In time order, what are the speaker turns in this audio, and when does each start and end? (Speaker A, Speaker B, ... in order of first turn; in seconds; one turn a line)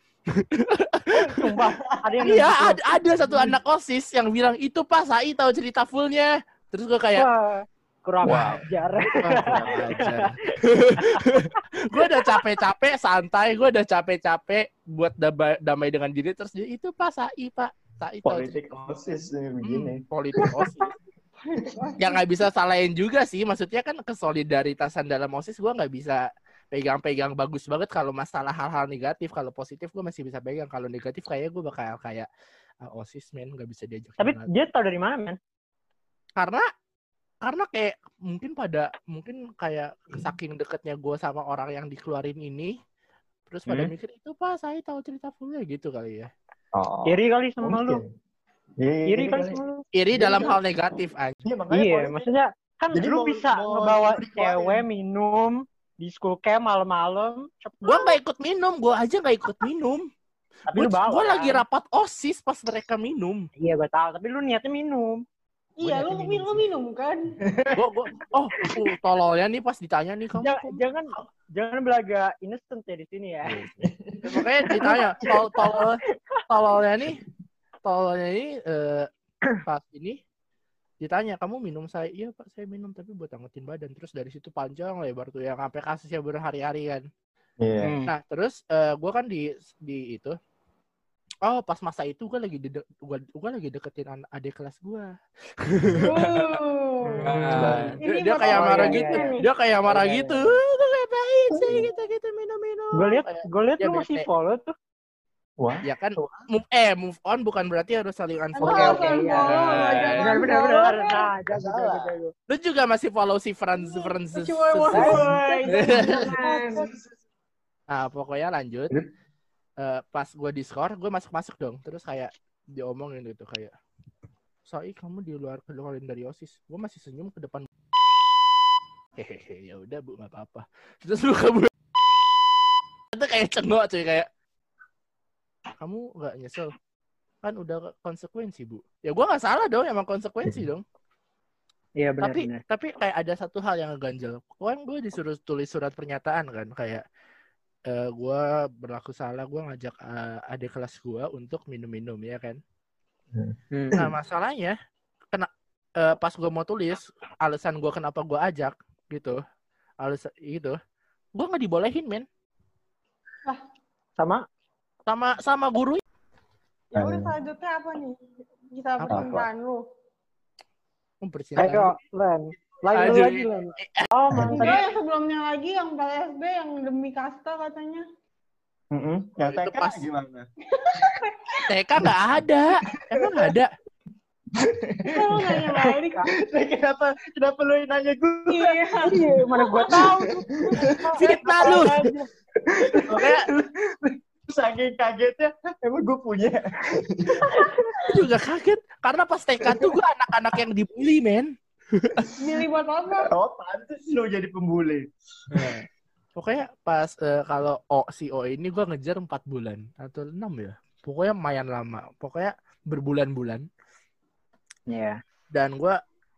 Speaker A: 0.4-1.1
Speaker B: 1.1-3.5
Speaker C: 1.9-2.5
Speaker A: 2.2-7.3
Speaker B: 7.2-10.3
Speaker A: 8.2-18.5
Speaker C: 8.3-8.6
Speaker C: 9.4-10.2
Speaker B: 11.0-11.4
Speaker B: 12.0-12.4
Speaker C: 18.2-20.7
Speaker A: 19.6-20.9
Speaker D: 21.4-22.1
Speaker A: 22.0-32.3
Speaker A: 32.8-34.5
Speaker B: 34.2-35.4
Speaker A: 36.4-36.6
Speaker A: 37.4-42.8
Speaker A: 43.5-46.3
Speaker C: 46.7-48.1
Speaker B: 47.1-48.0
Speaker C: 48.8-50.6
Speaker B: 49.1-49.8
Speaker A: 49.9-51.4
Speaker C: 51.4-52.3
Speaker B: 51.7-58.2
Speaker C: 52.9-54.8
Speaker A: 57.8-60.1
Speaker B: 60.7-61.6
Speaker A: 60.7-63.5
Speaker B: 63.6-65.2
Speaker D: 65.8-67.4
Speaker A: 65.8-66.7
Speaker C: 67.5-67.8
Speaker A: 67.8-71.2
Speaker B: 70.4-73.6
Speaker C: 73.8-75.0
Speaker A: 74.2-77.2
Speaker B: 74.8-76.4
Speaker A: 77.8-79.1
Speaker A: 79.7-80.2
Speaker A: 81.0-87.0
Speaker C: 87.6-87.9
Speaker B: 87.8-88.1
Speaker A: 88.1-90.3
Speaker A: 91.5-95.1
Speaker A: 95.6-96.6
Speaker D: 96.0-97.3
Speaker B: 97.0-100.5
Speaker A: 97.2-104.3
Speaker C: 97.5-98.0
Speaker D: 98.0-99.4
Speaker C: 101.5-101.9
Speaker B: 102.9-104.7
Speaker C: 105.6-106.4
Speaker A: 105.8-110.6
Speaker D: 108.6-111.3
Speaker B: 108.6-112.3
Speaker C: 111.5-112.2
Speaker A: 112.5-116.3
Speaker D: 113.7-116.8
Speaker B: 114.9-116.9
Speaker C: 115.0-115.9
Speaker C: 116.7-117.2
Speaker A: 117.9-118.9
Speaker A: 119.8-123.7
Speaker A: 124.7-127.7
Speaker A: 129.2-131.7
Speaker A: 133.1-134.3
Speaker A: 135.8-136.8
Speaker A: 137.4-140.8
Speaker B: 142.0-142.6
Speaker A: 142.2-147.0
Speaker A: 147.9-152.6
Speaker C: 153.3-154.1
Speaker B: 153.7-154.0
Speaker A: 153.9-154.8
Speaker A: 155.3-159.4
Speaker A: 160.0-160.8
Speaker A: 161.3-162.2
Speaker B: 164.2-164.4
Speaker A: 165.1-166.0
Speaker D: 166.9-168.2
Speaker C: 166.9-167.3
Speaker D: 168.7-169.8
Speaker C: 169.1-169.5
Speaker A: 171.2-172.0
Speaker B: 171.6-174.8
Speaker A: 172.9-174.1
Speaker C: 174.3-174.8
Speaker D: 174.5-178.0
Speaker C: 178.9-180.5
Speaker A: 179.4-180.0
Speaker D: 180.8-181.6
Speaker A: 181.7-183.7
Speaker C: 183.2-183.5
Speaker C: 184.6-185.8
Speaker D: 185.1-186.2
Speaker B: 185.8-186.2
Speaker C: 186.4-189.3
Speaker D: 188.5-191.7
Speaker B: 189.1-190.2
Speaker C: 189.9-190.2
Speaker B: 190.8-192.3
Speaker A: 191.2-191.9
Speaker C: 192.7-197.7
Speaker A: 193.1-193.5
Speaker B: 197.5-197.9
Speaker A: 198.1-202.2
Speaker C: 199.6-200.0
Speaker D: 202.4-203.3
Speaker C: 203.2-205.8
Speaker A: 205.5-213.7
Speaker B: 214.9-215.2
Speaker A: 215.5-216.0